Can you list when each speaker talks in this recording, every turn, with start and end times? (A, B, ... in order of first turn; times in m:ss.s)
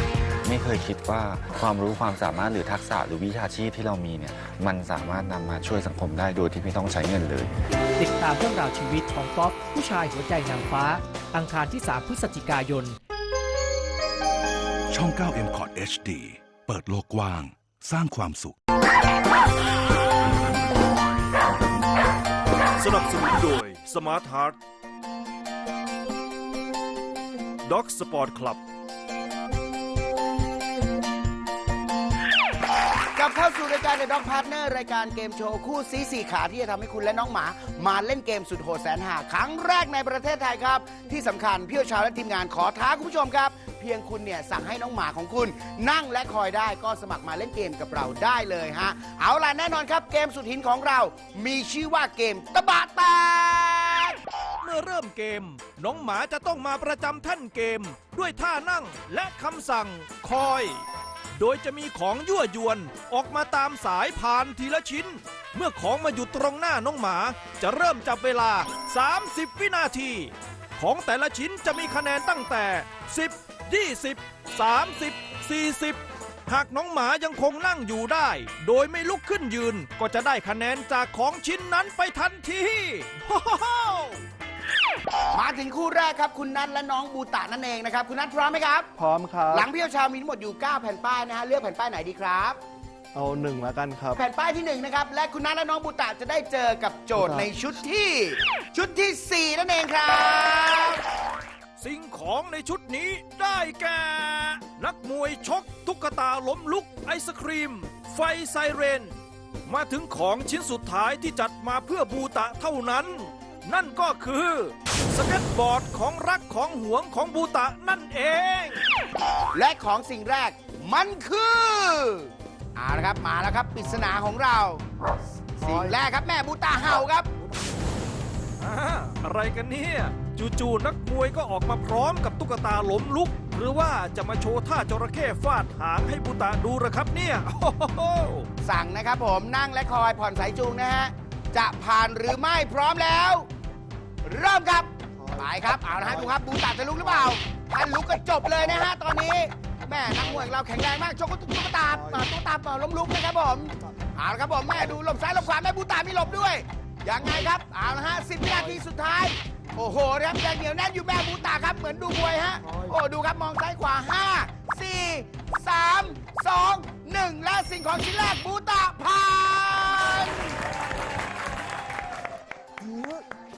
0:00.4-0:07.5 A
0:08.0-0:13.0 B
0:14.9-0:18.6 C
0:22.8-0:24.6 D
0:27.6-0:28.6 D
0:33.2-0:54.2 E
0:54.6-1:00.8 D
1:01.4-1:24.2 D
1:25.3-1:28.9 E
1:29.0-1:29.7 F
1:29.5-1:32.6 E
1:33.2-1:34.2 F
1:34.2-1:41.0 E
1:37.2-1:37.5 F
1:41.8-1:58.8 D
1:59.6-2:04.8 E
2:03.8-2:04.2 F
2:05.6-2:07.3 E
2:05.6-2:06.0 F
2:08.6-2:18.5 D
2:18.6-2:23.5 E
2:24.2-2:50.6 E
2:25.1-2:26.4 F
2:27.0-2:27.3 F
2:28.6-2:28.9 F
2:29.9-2:30.5 F
2:31.9-2:32.3 F
2:34.7-2:35.0 F
2:37.2-2:37.5 F
2:38.5-2:38.8 F
2:42.6-2:43.0 F
2:52.8-2:53.2 F